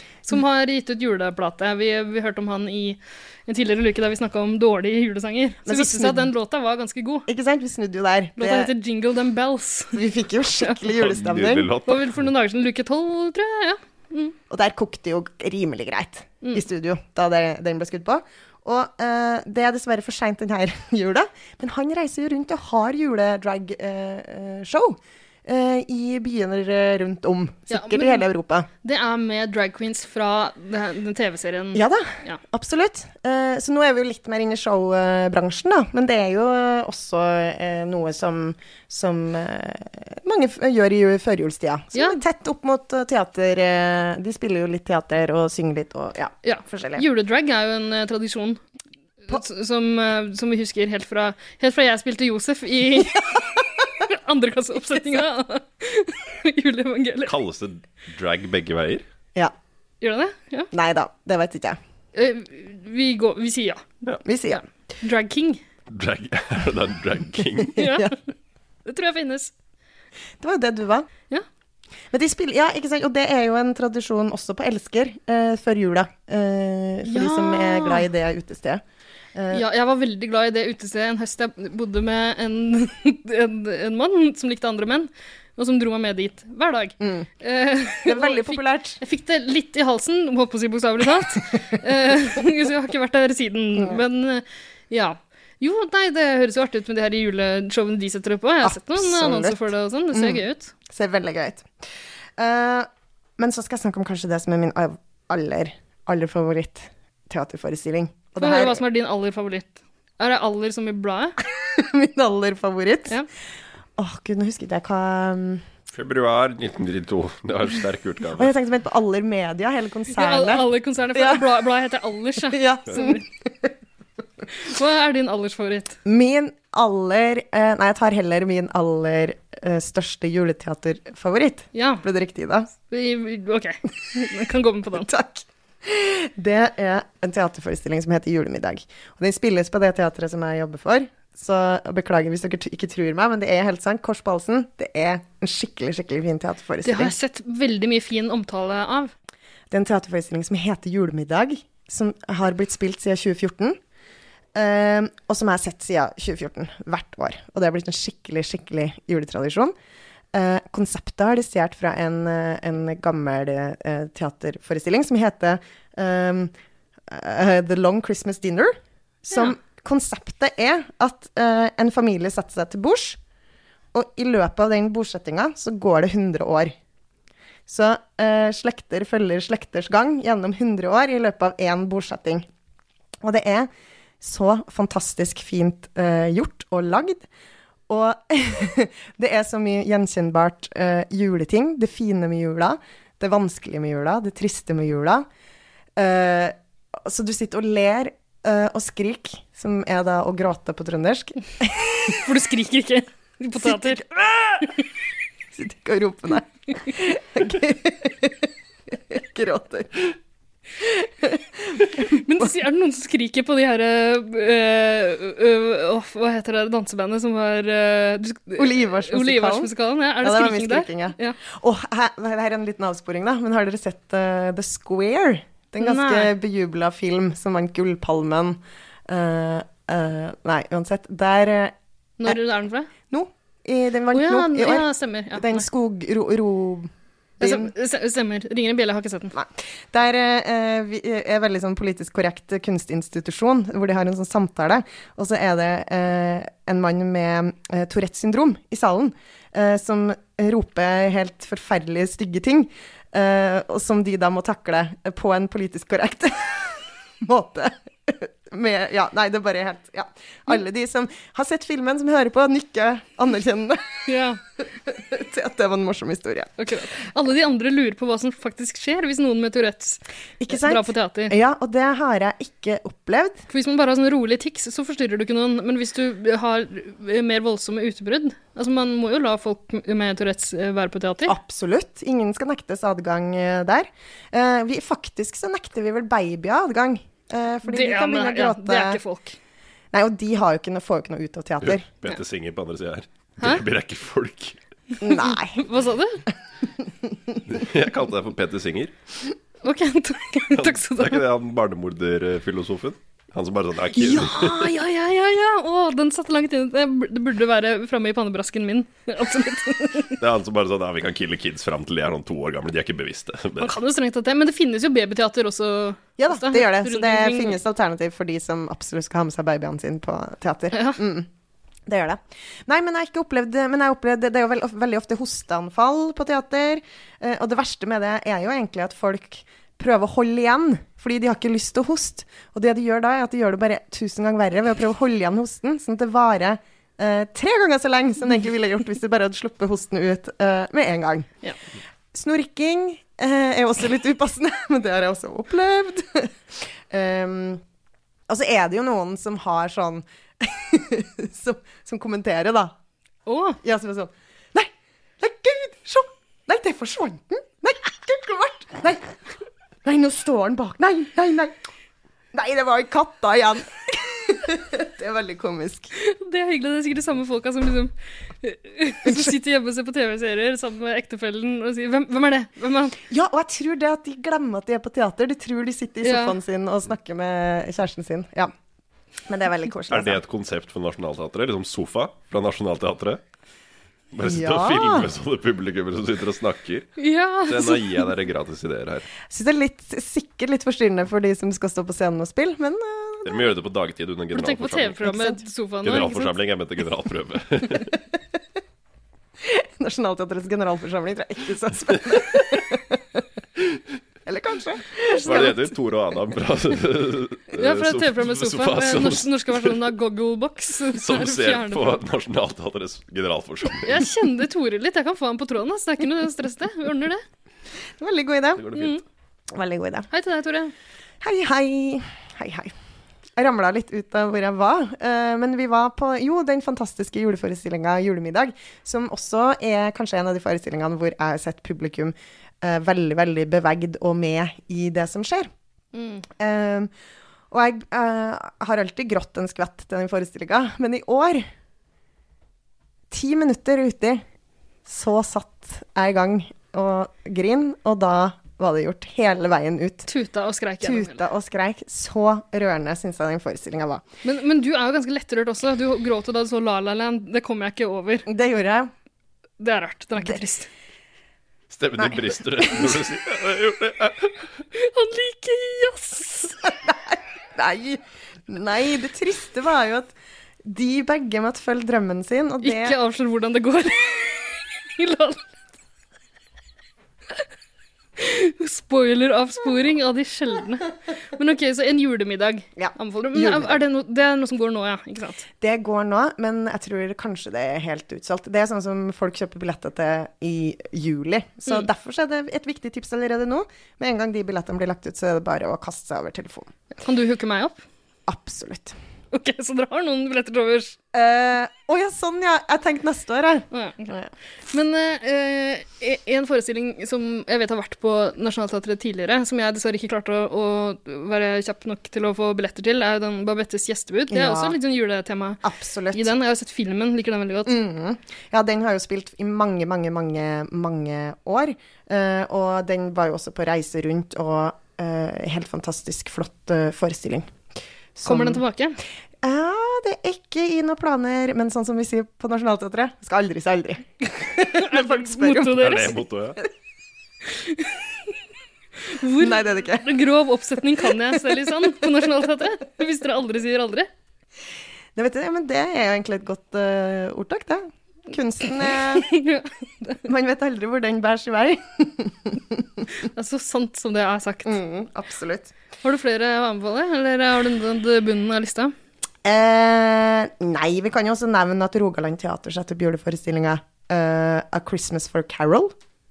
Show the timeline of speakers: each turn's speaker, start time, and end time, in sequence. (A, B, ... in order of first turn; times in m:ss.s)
0:00.3-0:07.3 A
0:05.6-0:06.3 B
0:07.3-0:08.7 B
0:08.4-0:10.0 A
0:09.9-0:11.7 B
0:10.8-0:12.1 C
0:11.8-0:14.3 A
0:14.5-0:28.7 B
0:27.7-0:28.2 A
0:28.8-0:32.4 A
0:31.7-0:47.0 B
0:41.9-0:42.2 A
0:46.4-0:48.6 A
0:49.3-0:57.3 A
0:57.2-0:59.0 C
1:00.0-1:00.7 A
1:00.7-1:01.8 B
1:02.1-1:04.0 A
1:04.2-1:04.6 B
1:04.5-1:05.6 A
1:05.9-1:07.8 C
1:07.7-1:08.1 B
1:07.8-1:08.2 A
1:08.8-1:09.5 A
1:10.4-1:11.1 B
1:12.1-1:18.8 B
1:17.0-1:18.0 A
1:19.3-1:19.6 B
1:19.5-1:40.7 A
1:27.0-1:27.2 B
1:28.0-1:29.0 B
1:38.6-1:41.7 B
1:42.4-1:48.8 B
1:48.4-1:51.4 A
1:51.4-1:53.2 B
1:54.0-1:55.6 B
1:55.9-1:58.5 C
1:58.3-2:01.5 B
2:00.1-2:03.2 A
2:02.5-2:03.6 B
2:04.5-2:06.0 A
2:06.0-2:12.7 B
2:11.7-2:12.0 A
2:12.9-2:15.1 A
2:15.0-2:27.1 B
2:26.8-2:29.1 A
2:29.7-2:33.8 B
2:34.5-2:39.7 B
2:40.3-2:46.5 B
2:47.1-2:53.2 B
2:53.9-2:56.7 B
2:57.7-3:02.4 B
3:03.2-3:03.7 B
3:04.2-3:07.2 B
3:07.9-3:15.2 B
3:16.0-3:22.2 B
3:22.1-3:24.8 A
3:23.6-3:24.7 B
3:25.5-3:30.2 B
3:30.8-3:32.2 B
3:31.9-3:41.4 A
3:38.6-3:51.7 B
3:45.8-3:46.3 A
3:52.2-3:52.9 A
3:53.1-3:57.7 B
3:54.1-3:55.6 A
3:57.4-3:59.3 A
3:59.3-4:24.1 B
4:24.0-4:24.4 A
4:24.8-4:26.5 B
4:26.6-4:31.3 A
4:30.4-4:33.4 B
4:33.5-4:41.3 A
4:41.2-4:49.0 B
4:47.6-4:49.4 A
4:49.9-4:51.8 B
4:51.6-4:54.6 C
4:55.0-4:55.6 B
4:55.0-4:56.2 A
4:57.5-4:58.9 C
4:59.6-5:01.2 A
5:00.5-5:04.7 C
5:03.9-5:10.2 A
5:10.2-5:13.8 C
5:13.6-5:17.6 A
5:16.2-5:21.3 B
5:20.7-5:21.0 A
5:21.9-5:41.3 B
5:42.1-5:47.6 B
5:48.3-5:52.8 B
5:53.2-5:53.6 A
5:53.6-5:59.2 B
5:59.8-6:01.6 B
6:02.3-6:05.9 B
6:05.9-6:13.0 A
6:13.1-6:18.5 B
6:16.0-6:16.4 A
6:19.3-6:20.2 B
6:19.9-6:23.2 C
6:24.1-6:26.9 C
6:24.2-6:25.1 B
6:27.0-6:27.9 A
6:27.5-6:29.1 C
6:29.2-6:33.5 B
6:33.2-6:35.0 C
6:34.3-6:36.3 A
6:35.0-6:35.4 B
6:35.8-6:37.9 C
6:39.4-6:43.2 B
6:44.2-6:45.7 B
6:45.1-6:45.6 A
6:45.2-6:49.8 C
6:47.5-6:52.0 A
6:50.9-6:54.1 C
6:53.8-6:57.2 A
6:58.0-6:58.8 B
6:58.6-6:58.9 C
6:58.7-6:59.0 A
6:59.5-7:00.1 B
7:00.1-7:00.7 A
7:01.2-7:02.7 B
7:03.4-7:15.5 B
7:15.9-7:16.3 A
7:16.4-7:16.9 B
7:17.5-7:21.4 B
7:23.1-7:24.2 B
7:24.8-7:30.1 B
7:30.1-7:31.2 A
7:30.8-7:34.0 B
7:34.2-7:38.3 A
7:38.2-7:38.9 B
7:39.6-7:40.7 A
7:41.7-7:44.3 C
7:42.0-7:43.0 B
7:44.7-7:46.6 A
7:46.6-7:50.1 B
7:50.6-7:53.0 B
7:52.6-7:55.5 A
7:58.2-8:05.4 A
8:02.8-8:03.8 B
8:05.6-8:16.7 B
8:17.0-8:17.8 A
8:18.3-8:18.9 B
8:19.3-8:21.0 A
8:21.1-8:24.3 B
8:23.7-8:24.2 A
8:24.7-8:35.6 A
8:34.3-8:34.8 B
8:35.6-8:36.3 B
8:36.1-8:37.8 A
8:37.6-8:47.5 B
8:48.1-8:48.6 B
8:48.2-8:49.0 A
8:49.4-8:56.7 B
8:54.6-8:56.2 A
8:55.7-8:56.6 C
8:57.5-8:58.0 A
8:59.0-9:04.1 A
8:59.4-9:00.1 B
9:05.1-9:09.3 B
9:08.9-9:10.2 A
9:10.2-9:13.0 B
9:13.2-9:14.8 A
9:14.6-9:15.7 B
9:16.0-9:18.9 A
9:19.4-9:25.9 B